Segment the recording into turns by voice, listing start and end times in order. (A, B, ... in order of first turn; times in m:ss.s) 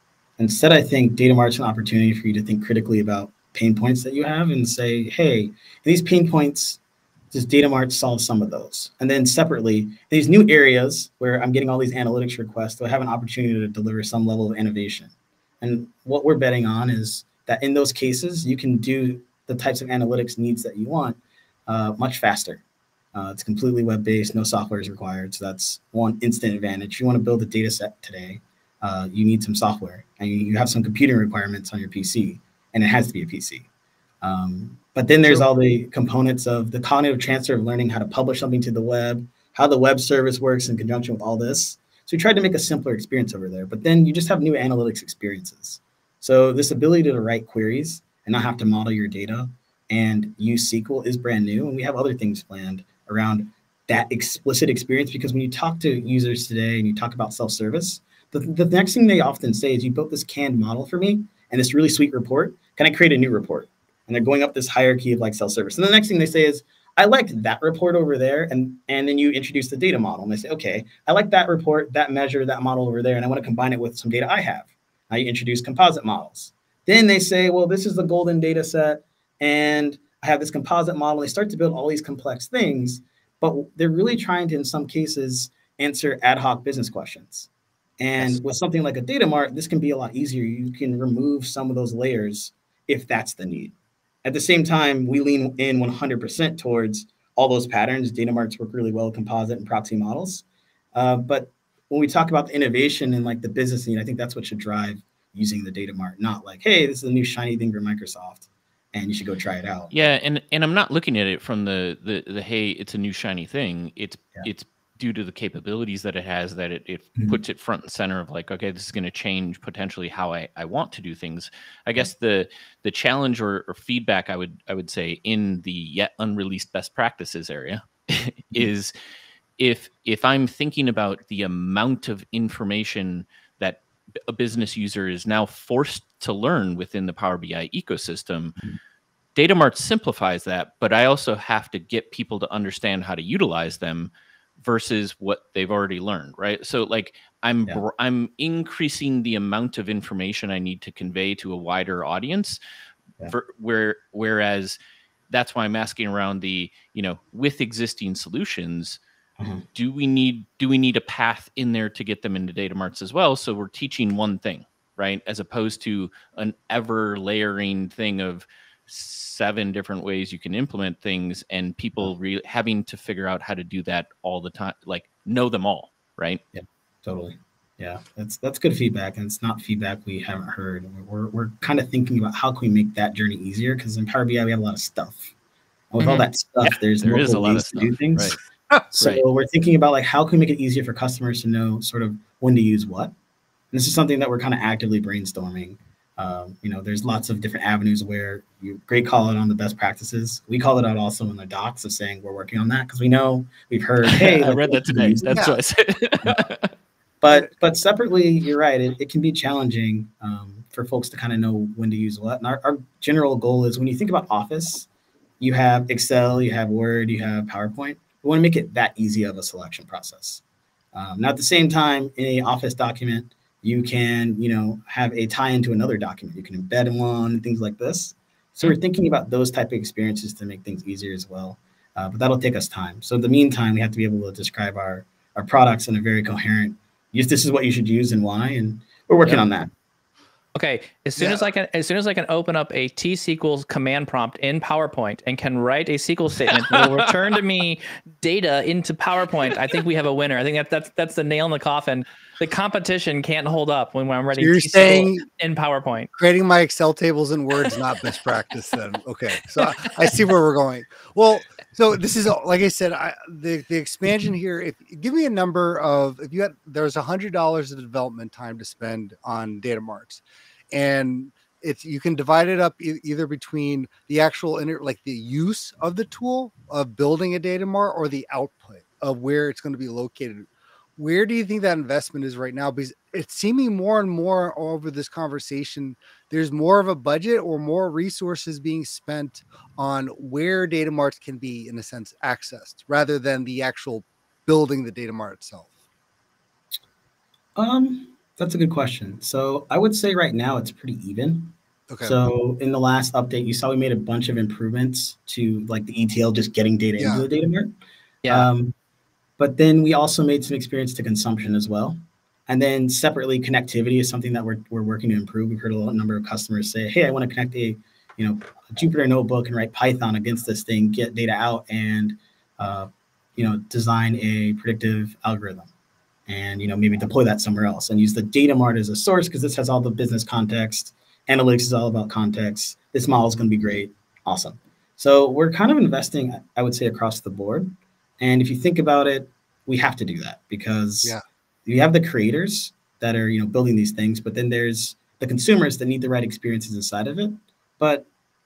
0:00.4-0:06.8 A
0:07.3-0:22.6 A
0:23.1-0:33.7 A
0:34.2-1:49.9 A
1:49.9-2:08.9 B
2:09.6-2:18.6 B
2:19.3-2:32.6 B
2:33.3-2:34.8 B
2:35.3-2:39.0 B
2:39.4-2:39.6 A
2:39.7-2:56.4 B
2:56.5-3:05.3 A
3:05.9-3:08.4 A
3:06.0-3:06.3 C
3:06.6-3:08.4 B
3:08.9-3:09.2 B
3:08.9-3:13.1 A
3:13.7-3:25.4 A
3:24.0-3:26.7 B
3:25.3-3:25.6 D
3:27.2-3:34.9 A
3:35.4-3:40.4 A
3:40.9-3:59.7 A
4:00.5-4:16.1 C
4:06.6-4:06.8 B
4:14.3-4:15.2 D
4:16.1-4:55.7 D
4:57.6-5:07.7 A
5:01.9-5:02.2 D
5:07.0-5:07.2 D
5:08.3-5:08.7 A
5:09.4-5:25.7 A
5:26.3-5:48.1 A